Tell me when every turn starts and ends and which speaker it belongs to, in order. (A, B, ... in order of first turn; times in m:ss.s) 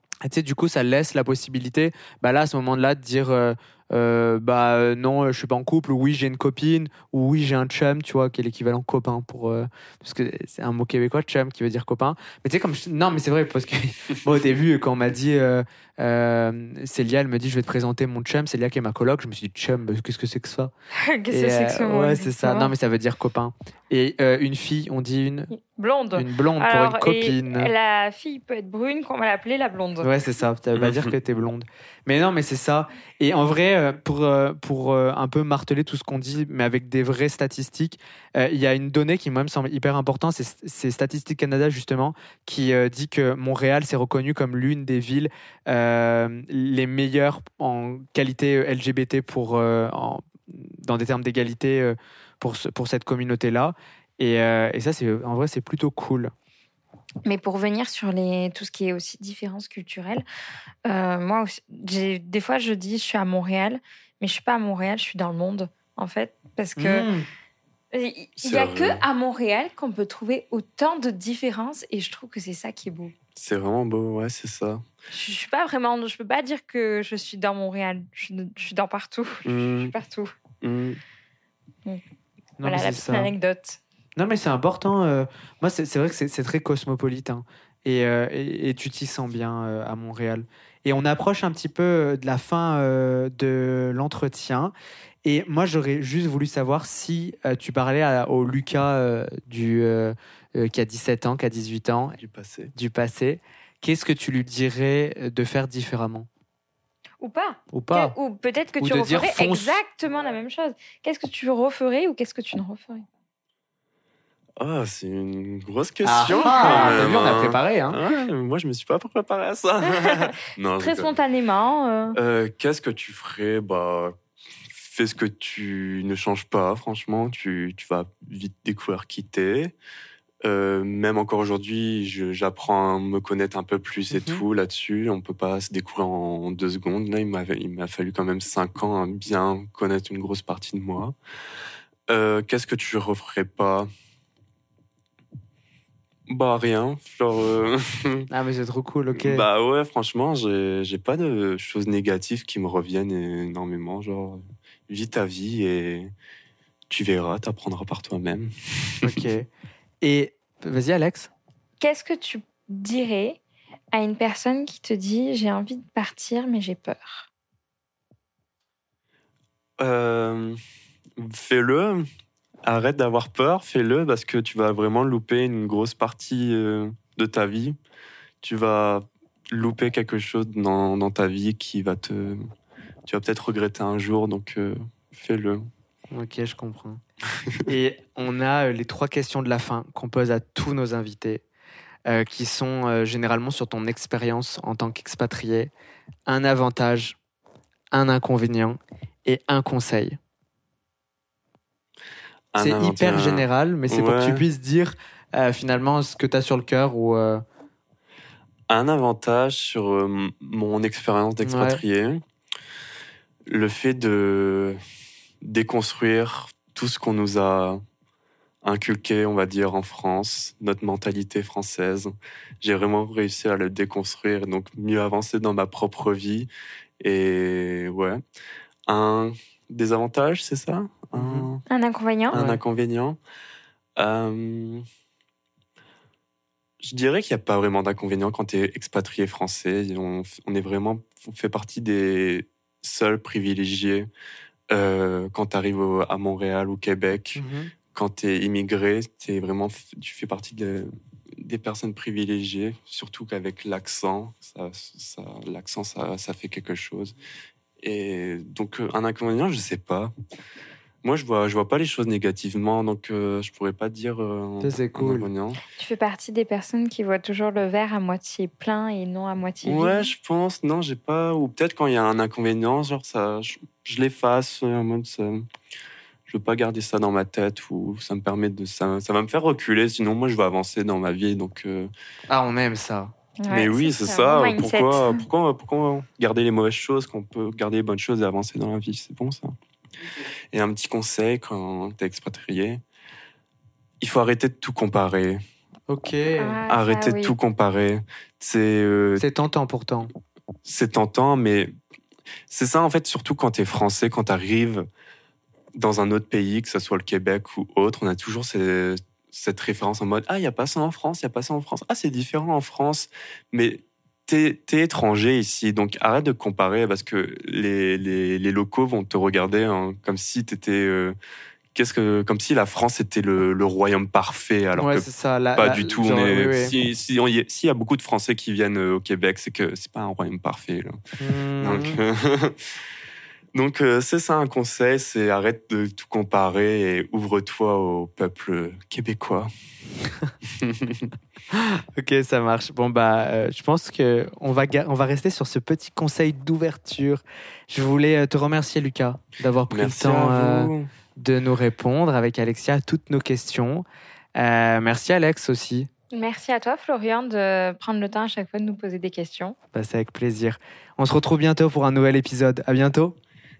0:00.2-0:20.7 A
0:21.0-0:22.7 B
0:21.3-0:25.5 A
0:25.5-0:30.1 B
0:26.1-0:27.7 A
0:30.0-0:56.3 A
0:30.8-0:31.1 C
0:57.2-1:00.2 B
1:00.8-1:07.1 B
1:06.8-1:07.2 A
1:07.9-1:13.1 B
1:08.4-1:09.0 C
1:13.4-1:14.8 C
1:15.1-1:20.3 B
1:19.4-1:19.9 C
1:20.6-1:21.0 C
1:22.6-1:23.3 A
1:22.6-1:23.8 B
1:24.2-1:34.7 A
1:35.2-1:42.2 A
1:42.2-1:42.7 C
1:42.7-1:46.3 A
1:47.2-1:53.0 B
1:47.7-1:48.1 A
1:48.8-1:49.8 A
1:54.6-2:01.1 C
1:56.0-1:58.0 A
1:56.3-1:57.0 B
1:59.8-2:02.2 B
2:02.1-2:09.7 C
2:10.4-2:21.1 C
2:14.1-2:14.4 A
2:22.1-2:23.9 C
2:26.3-2:28.3 C
2:28.3-2:29.4 A
2:29.1-2:36.1 C
2:36.9-2:39.2 C
2:39.0-2:39.5 A
2:40.0-2:41.3 A
2:41.8-2:43.4 B
2:43.9-2:47.3 B
2:49.8-2:50.6 C
2:51.2-2:52.0 C
2:52.6-2:57.8 C
2:58.4-3:02.4 C
3:03.0-3:05.6 C
3:06.1-3:07.0 A
3:07.6-3:11.4 A
3:12.1-3:15.7 A
3:16.2-3:17.2 A
3:17.9-3:20.2 A
3:22.5-3:24.4 C
3:22.6-3:27.4 A
3:28.7-3:32.2 C
3:31.4-3:31.8 A
3:33.4-3:34.8 C
3:35.4-3:37.8 C
3:38.6-3:46.5 C
3:47.0-3:48.2 C
3:48.9-3:51.6 C
3:51.1-3:51.5 A
3:51.7-3:52.4 B
3:52.3-3:53.2 C
3:52.3-3:52.6 A
3:54.0-3:54.8 C
3:56.8-4:04.1 C
4:04.7-4:07.4 C
4:07.3-4:07.7 A
4:07.9-4:17.2 C
4:17.8-4:20.1 C
4:21.0-4:25.6 C
4:24.6-4:25.3 A
4:25.7-4:30.1 B
4:29.6-4:35.4 C
4:36.3-4:41.9 C
4:42.3-4:43.1 A
4:43.4-4:45.2 B
4:43.5-4:49.5 C
4:50.5-4:52.8 C
4:54.0-4:55.4 C
4:55.9-4:56.6 A
4:56.4-4:57.3 B
4:56.7-4:59.2 C
4:59.2-5:00.1 A
5:00.6-5:01.7 C
5:02.5-5:04.8 C
5:05.7-5:21.2 C
5:21.7-5:31.0 C
5:24.8-5:26.7 A
5:31.2-5:32.0 A
5:31.6-5:32.7 C
5:33.5-5:39.5 C
5:40.4-5:41.1 C
5:41.5-5:53.8 A
5:49.7-5:50.9 C
5:54.4-5:55.9 A
5:56.1-5:59.6 B
5:59.7-6:03.2 A